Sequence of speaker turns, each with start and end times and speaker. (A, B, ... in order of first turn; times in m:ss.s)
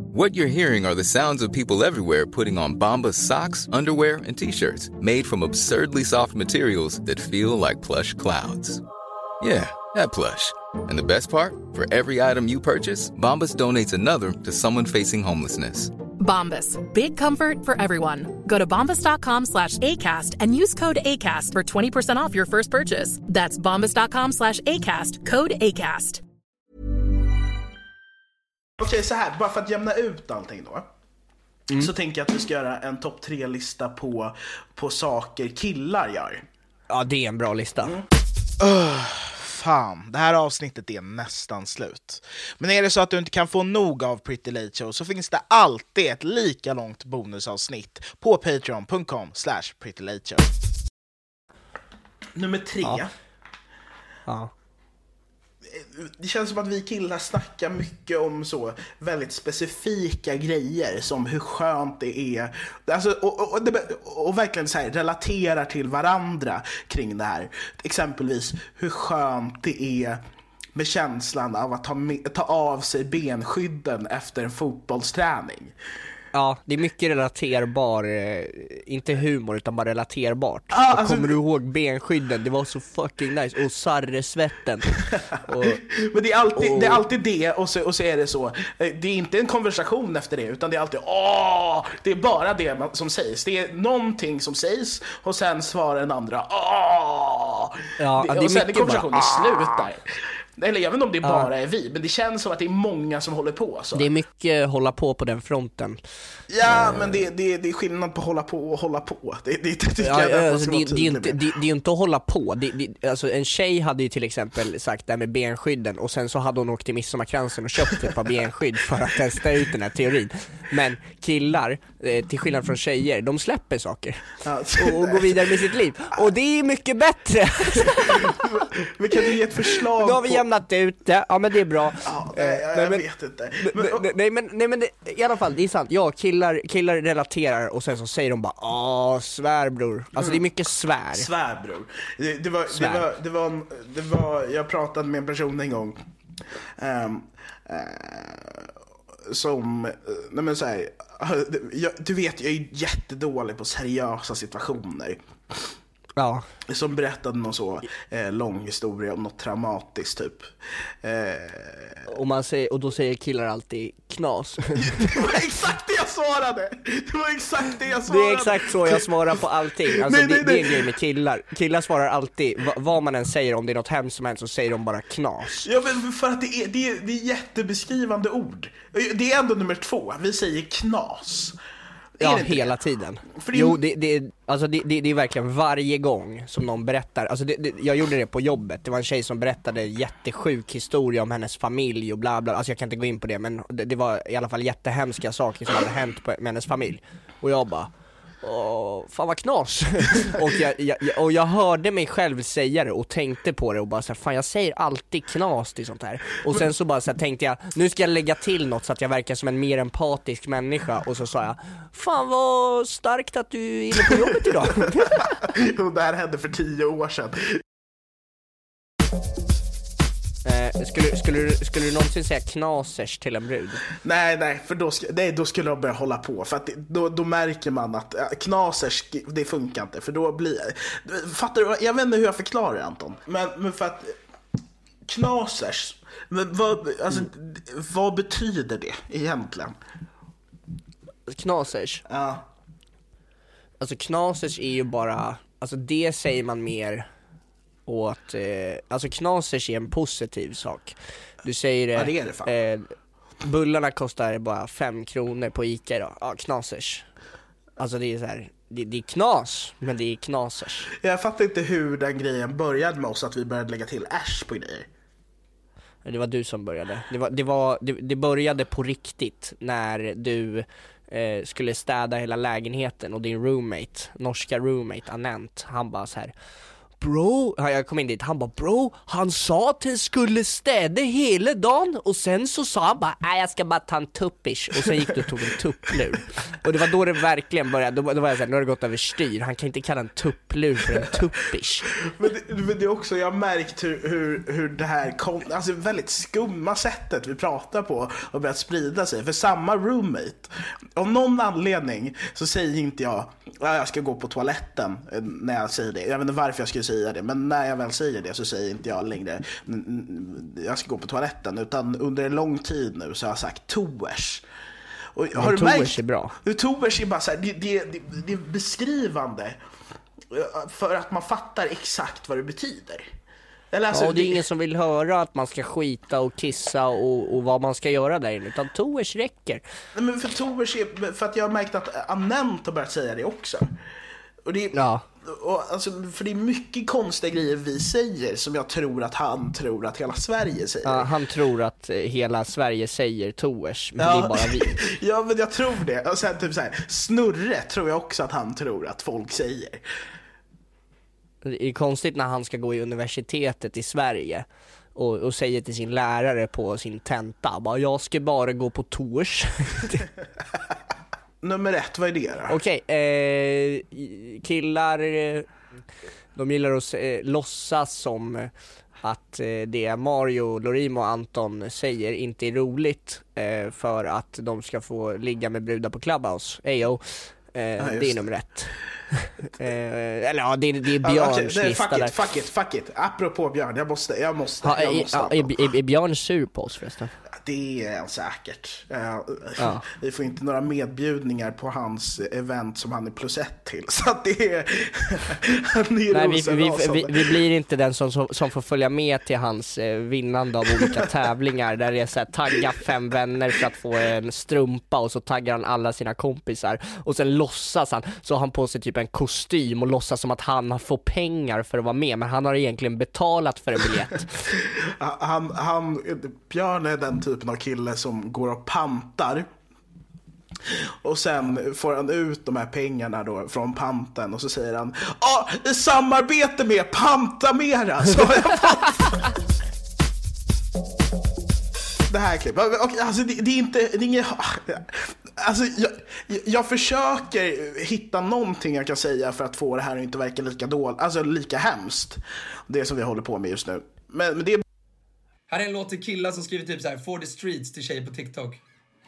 0:00.1-0:08.8 A
0:09.4-0:15.9 A
0:16.2-0:26.2 B
0:28.8-0:30.9 C
0:31.7-0:36.4 C
0:36.9-0:38.0 D
0:38.6-0:50.5 C
0:52.4-0:53.1 C
0:55.7-1:10.2 C
1:10.8-1:15.7 C
1:16.3-1:25.8 D
1:20.7-1:21.4 C
1:25.6-1:40.1 C
1:26.6-1:27.0 D
1:38.0-1:39.8 D
1:40.6-1:44.1 C
1:41.2-1:41.5 D
1:43.9-1:46.0 D
1:46.5-1:51.4 C
1:46.6-1:47.3 D
1:50.0-2:08.5 D
2:04.4-2:05.7 C
2:08.0-2:10.4 C
2:09.9-2:13.0 D
2:12.0-2:14.0 C
2:13.6-2:21.3 D
2:20.2-2:20.4 C
2:21.1-2:26.0 C
2:22.7-2:23.0 D
2:26.8-2:28.7 C
2:29.3-2:35.7 C
2:36.2-2:36.5 D
2:36.7-2:40.5 C
2:41.0-2:42.0 C
2:42.1-2:45.3 D
2:44.8-2:50.9 C
2:48.1-2:55.7 D
2:55.6-3:01.6 C
3:02.2-3:02.7 C
3:02.2-3:17.9 D
3:03.4-3:03.8 C
3:18.4-3:35.3 D
3:35.4-3:37.6 C
3:40.4-3:43.8 D
3:44.0-3:54.2 C
3:55.1-3:59.8 C
4:01.3-4:02.0 D
4:02.1-4:02.4 C
4:03.8-4:07.1 D
4:07.9-4:12.9 D
4:11.9-4:12.5 C
4:13.4-4:17.1 D
4:17.8-4:20.9 D
4:21.0-4:24.9 C
4:26.0-4:36.3 D
4:37.0-4:51.9 D
4:52.1-5:14.4 C
5:15.2-5:19.6 C
5:15.4-5:16.3 D
5:20.3-5:23.0 C
5:23.7-5:24.4 C
5:23.9-5:29.6 D
5:30.0-5:33.7 C
5:34.4-5:41.1 C
5:34.7-5:35.0 D
5:40.8-5:44.8 D
5:44.0-5:49.8 C
5:51.4-6:00.1 D
6:01.4-6:02.6 C
6:02.5-6:05.5 D
6:06.4-6:08.5 D
6:09.0-6:22.2 D
6:17.8-6:18.2 C
6:21.0-6:25.6 C
6:24.6-6:27.1 D
6:27.4-6:37.4 C
6:29.6-6:29.8 D
6:36.1-6:54.5 D
6:54.6-6:59.5 C
7:00.7-7:09.3 C
7:12.1-7:24.6 C
7:25.5-7:28.6 E